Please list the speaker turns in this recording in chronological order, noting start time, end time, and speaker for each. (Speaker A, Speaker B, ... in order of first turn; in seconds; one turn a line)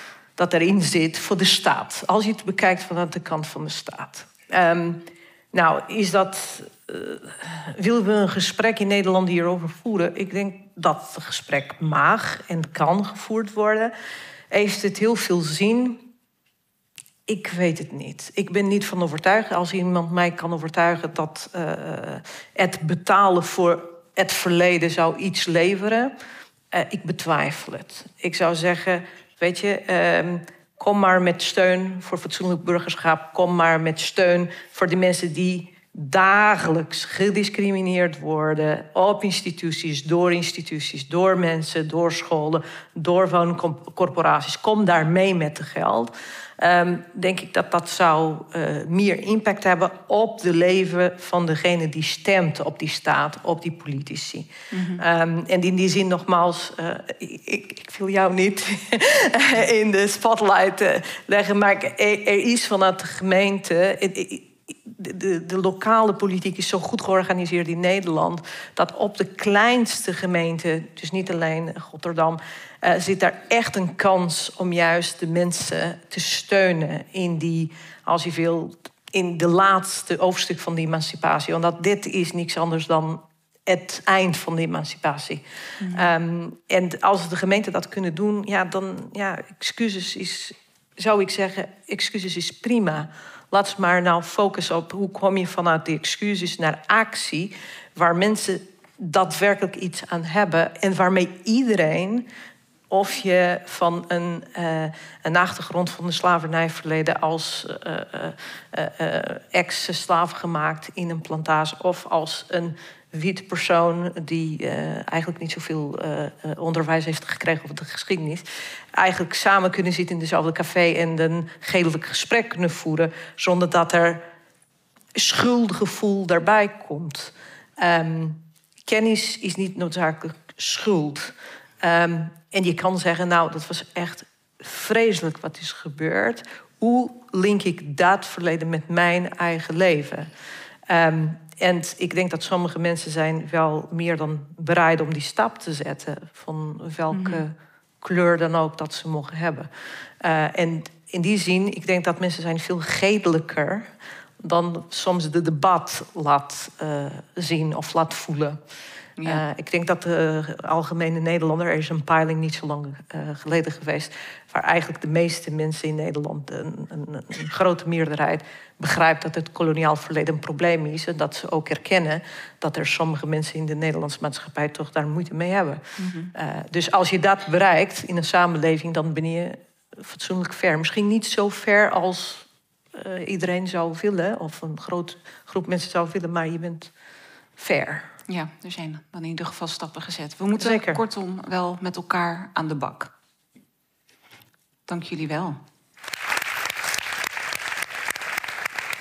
Speaker A: 0.4-13.9
Speaker A: 14.5-16.1
Speaker A: 17.3-26.1
Speaker A: 26.7-102.3
Speaker B: 54.7-55.0
Speaker B: 85.8-86.1
Speaker A: 102.9-124.2
Speaker A: 125.1-140.3
Speaker A: 140.9-149.7
Speaker B: 147.1-147.4
Speaker A: 150.2-158.6
Speaker A: 159.2-175.8
Speaker B: 176.0-176.3
Speaker A: 176.3-186.9
Speaker A: 187.6-188.1
Speaker B: 188.3-193.1
Speaker A: 190.6-191.0
Speaker B: 194.9-195.6